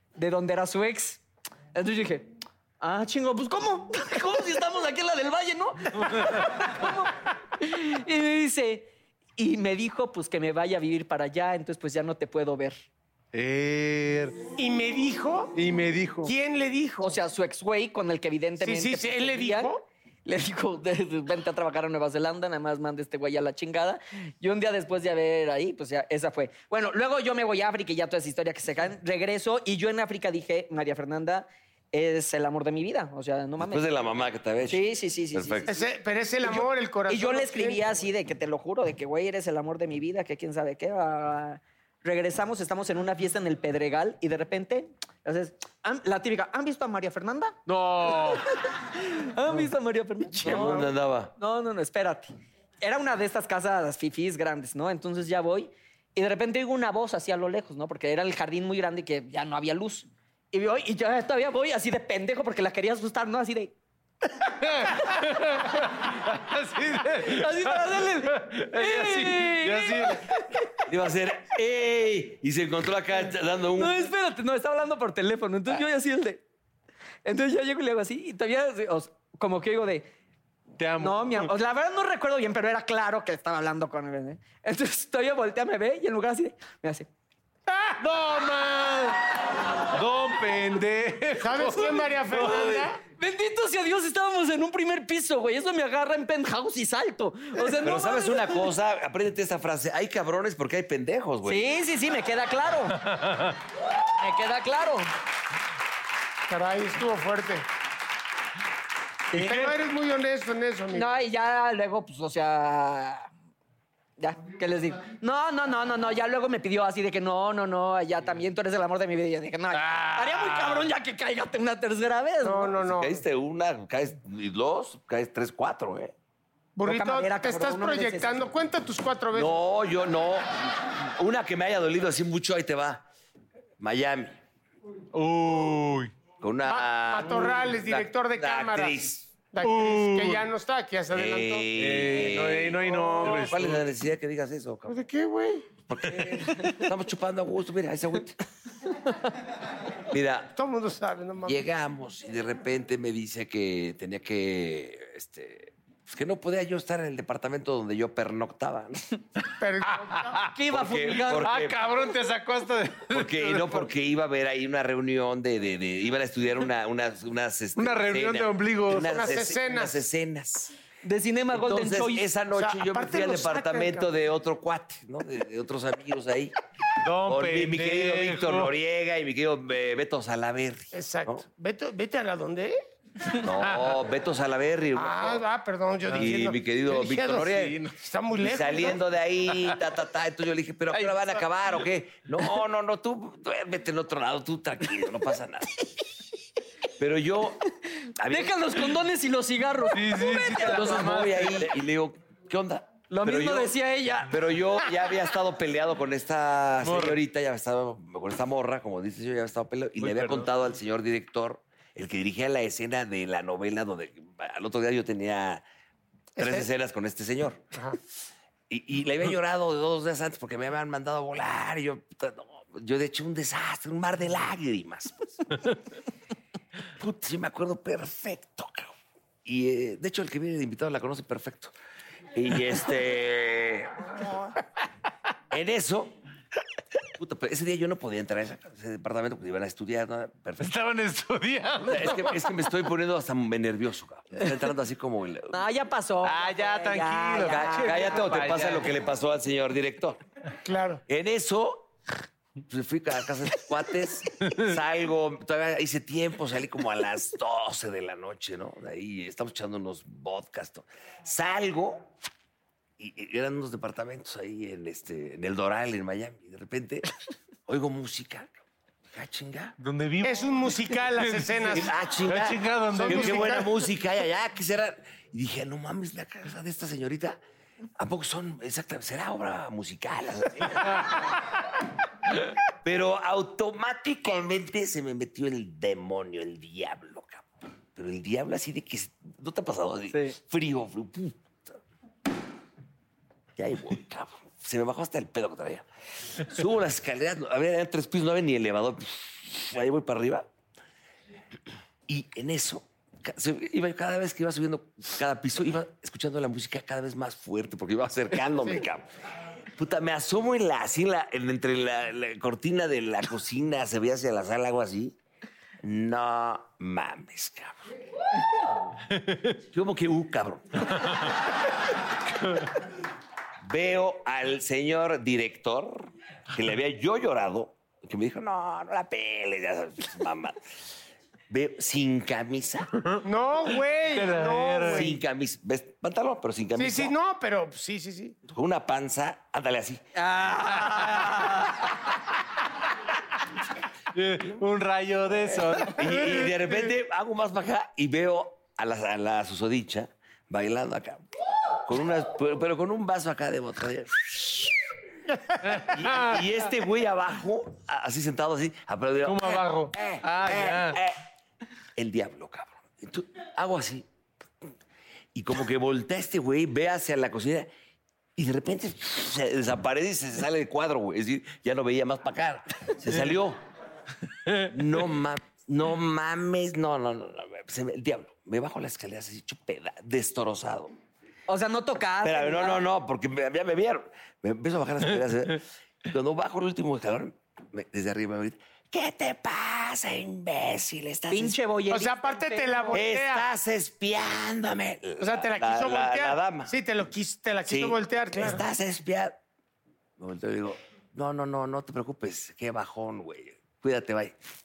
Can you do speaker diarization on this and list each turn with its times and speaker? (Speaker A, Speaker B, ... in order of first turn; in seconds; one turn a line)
Speaker A: 0.1-1.2
Speaker A: 1.7-12.8
Speaker B: 13.3-14.3
Speaker C: 14.6-15.5
Speaker B: 15.5-16.3
Speaker C: 16.2-17.2
Speaker A: 17.0-19.7
Speaker C: 18.6-19.8
Speaker A: 20.2-33.9
Speaker D: 33.6-35.8
Speaker A: 34.7-35.8
Speaker C: 35.7-38.0
Speaker A: 36.4-47.6
Speaker B: 47.7-48.4
Speaker A: 48.1-63.7
Speaker D: 50.4-51.3
Speaker B: 64.6-70.3
Speaker A: 65.1-65.8
Speaker A: 67.1-70.7
Speaker D: 70.8-74.1
Speaker A: 73.7-76.4
Speaker A: 77.2-80.1
Speaker B: 80.8-81.5
Speaker A: 81.0-87.1
Speaker B: 88.0-89.2
Speaker B: 89.9-92.8
Speaker C: 91.4-93.0
Speaker A: 93.2-98.6
Speaker D: 97.8-101.7
Speaker A: 101.4-103.0
Speaker B: 103.0-103.5
Speaker A: 104.2-105.1
Speaker C: 106.5-107.7
Speaker A: 109.3-109.6
Speaker C: 109.3-111.1
Speaker B: 109.3-109.7
Speaker A: 110.9-113.3
Speaker A: 114.2-122.7
Speaker B: 119.7-120.9
Speaker C: 122.4-123.2
Speaker D: 122.8-126.1
Speaker C: 126.8-129.6
Speaker A: 126.8-128.5
Speaker D: 129.3-133.0
Speaker D: 133.8-134.4
Speaker B: 135.1-136.1
Speaker D: 136.4-139.3
Speaker C: 136.6-139.0
Speaker B: 137.2-137.6
Speaker C: 139.5-141.7
Speaker B: 139.6-140.5
Speaker D: 141.1-144.9
Speaker B: 141.8-143.8
Speaker C: 144.9-145.7
Speaker D: 145.9-148.4
Speaker D: 150.1-150.5
Speaker C: 150.6-151.6
Speaker D: 151.4-159.2
Speaker C: 159.6-160.3
Speaker B: 160.0-160.5
Speaker A: 160.5-161.5
Speaker D: 160.7-161.8
Speaker B: 161.2-163.9
Speaker D: 163.1-170.7
Speaker B: 167.8-169.2
Speaker C: 169.0-170.0
Speaker A: 171.0-172.3
Speaker D: 171.5-176.5
Speaker C: 172.5-174.1
Speaker B: 177.0-178.7
Speaker D: 177.2-181.4
Speaker C: 180.9-182.8
Speaker D: 183.4-185.4
Speaker B: 183.7-183.9
Speaker C: 184.9-189.0
Speaker D: 186.1-187.8
Speaker D: 188.4-195.9
Speaker D: 197.0-197.6
Speaker D: 198.2-198.9
Speaker A: 198.2-201.1
Speaker B: 199.9-201.7
Speaker D: 200.6-215.6
Speaker A: 203.1-204.4
Speaker B: 206.8-207.2
Speaker B: 210.0-210.5
Speaker C: 216.4-216.7
Speaker D: 216.4-217.6
Speaker D: 218.7-225.3
Speaker D: 226.9-228.9
Speaker D: 229.4-231.7
Speaker D: 232.3-234.4
Speaker D: 235.5-236.1
Speaker D: 237.2-240.7
Speaker B: 240.6-242.5
Speaker D: 241.8-245.6
Speaker A: 245.5-248.3
Speaker B: 246.2-248.9
Speaker D: 247.4-250.2
Speaker C: 250.6-251.0
Speaker D: 251.1-251.9
Speaker D: 252.7-262.1
Speaker B: 254.4-254.7
Speaker D: 263.0-267.1
Speaker D: 267.7-268.6
Speaker D: 269.1-269.8
Speaker B: 269.8-273.7
Speaker C: 270.2-271.9
Speaker D: 271.7-277.4
Speaker C: 272.9-273.7
Speaker D: 278.0-281.4
Speaker D: 282.8-291.8
Speaker D: 293.6-295.9
Speaker D: 296.4-300.5
Speaker D: 302.1-309.1
Speaker D: 309.8-315.1
Speaker D: 315.8-317.8
Speaker D: 319.6-321.3
Speaker D: 323.6-330.6
Speaker D: 331.5-332.9
Speaker C: 333.2-335.1
Speaker B: 334.1-335.1
Speaker D: 334.9-337.1
Speaker C: 336.8-338.4
Speaker D: 338.5-340.0
Speaker A: 340.1-341.8
Speaker B: 344.1-346.5
Speaker D: 345.8-351.2
Speaker D: 351.8-354.8
Speaker B: 355.6-356.5
Speaker D: 355.7-361.2
Speaker B: 359.2-361.0
Speaker D: 361.9-364.1
Speaker D: 365.3-367.7
Speaker D: 368.4-373.6
Speaker B: 374.4-374.7
Speaker D: 374.6-380.9
Speaker A: 381.5-382.8
Speaker D: 382.2-391.6
Speaker A: 391.3-393.0
Speaker C: 391.9-393.4
Speaker D: 392.9-396.7
Speaker C: 395.2-398.6
Speaker D: 397.6-399.4
Speaker D: 400.2-404.4